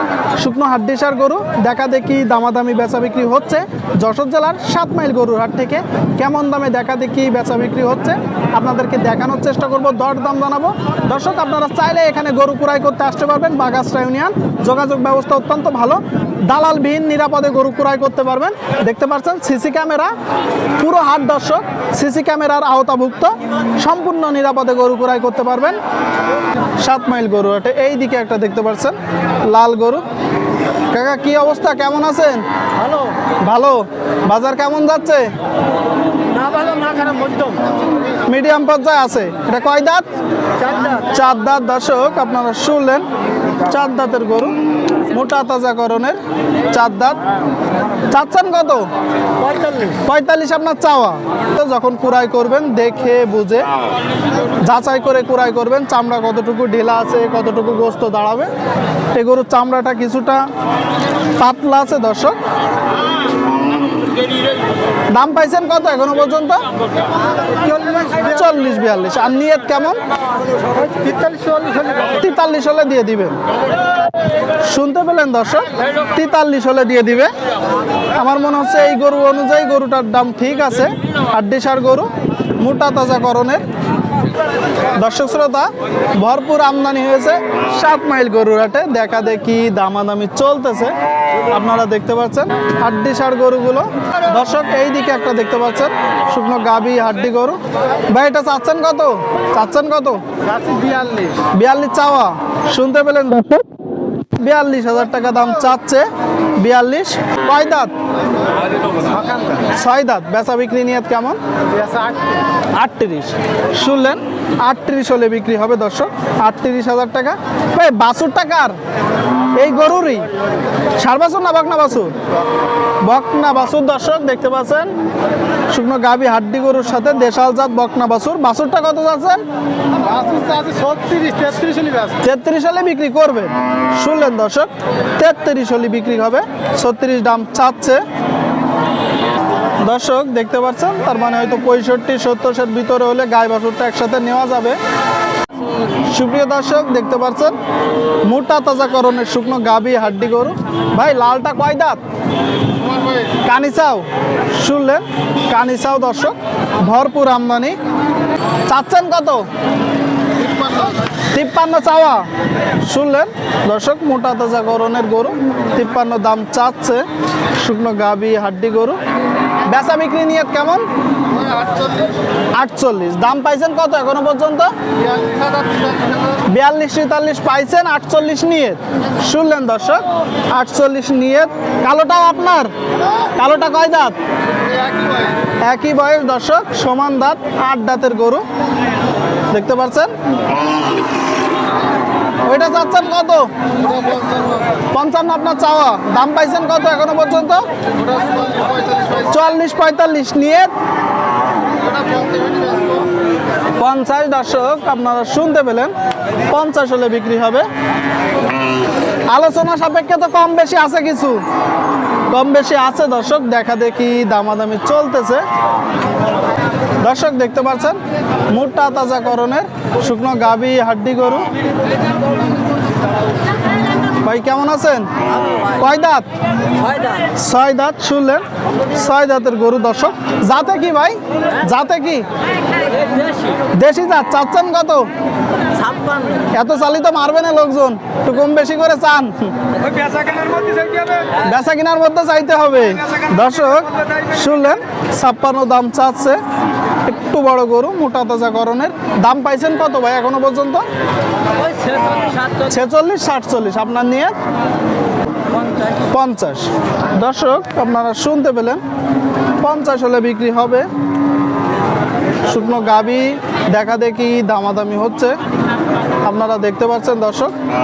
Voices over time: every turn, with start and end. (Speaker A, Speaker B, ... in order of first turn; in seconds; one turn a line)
Speaker A: 0.4-20.1
Speaker A: 20.8-25.8
Speaker A: 26.8-30.0
Speaker A: 30.9-32.4
Speaker A: 33.4-35.3
Speaker B: 36.3-37.6
Speaker A: 38.3-40.1
Speaker A: 40.9-43.1
Speaker A: 43.6-46.2
Speaker A: 46.7-47.2
Speaker A: 48.1-48.9
Speaker A: 49.9-53.7
Speaker A: 54.6-58.5
Speaker A: 59.1-60.5
Speaker A: 61.4-62.4
Speaker A: 65.1-66.7
Speaker A: 67.7-70.0
Speaker B: 70.9-72.0
Speaker A: 72.0-73.4
Speaker A: 74.6-77.3
Speaker A: 78.1-83.7
Speaker A: 84.9-91.0
Speaker A: 91.5-100.2
Speaker B: 100.5-101.4
Speaker A: 101.4-103.7
Speaker A: 104.3-107.9
Speaker B: 109.1-109.5
Speaker A: 109.6-111.4
Speaker B: 111.8-112.2
Speaker A: 112.7-118.8
Speaker A: 119.6-120.3
Speaker A: 121.0-122.2
Speaker A: 123.0-124.9
Speaker A: 125.7-129.4
Speaker B: 130.0-132.1
Speaker A: 132.1-138.0
Speaker A: 139.8-144.8
Speaker A: 146.1-147.6
Speaker A: 148.2-152.0
Speaker A: 153.4-157.8
Speaker A: 158.7-159.5
Speaker A: 161.3-162.3
Speaker A: 162.8-167.1
Speaker A: 167.6-169.0
Speaker A: 169.7-170.8
Speaker A: 172.6-174.7
Speaker B: 175.4-175.8
Speaker A: 176.5-182.7
Speaker A: 183.3-184.2
Speaker A: 185.7-188.4
Speaker A: 189.5-190.1
Speaker A: 192.4-193.5
Speaker A: 194.9-197.7
Speaker A: 199.2-200.7
Speaker B: 202.0-203.0
Speaker A: 203.8-205.9
Speaker A: 206.5-207.7
Speaker A: 209.3-211.4
Speaker A: 212.3-215.5
Speaker A: 217.0-221.5
Speaker A: 224.2-226.3
Speaker A: 227.2-232.3
Speaker A: 233.7-235.1
Speaker B: 235.8-236.3
Speaker A: 236.4-239.7
Speaker A: 241.2-246.4
Speaker A: 247.1-250.8
Speaker B: 251.8-252.4
Speaker A: 252.5-254.3
Speaker A: 255.9-258.8
Speaker A: 259.6-260.9
Speaker A: 262.5-265.4
Speaker A: 266.2-267.6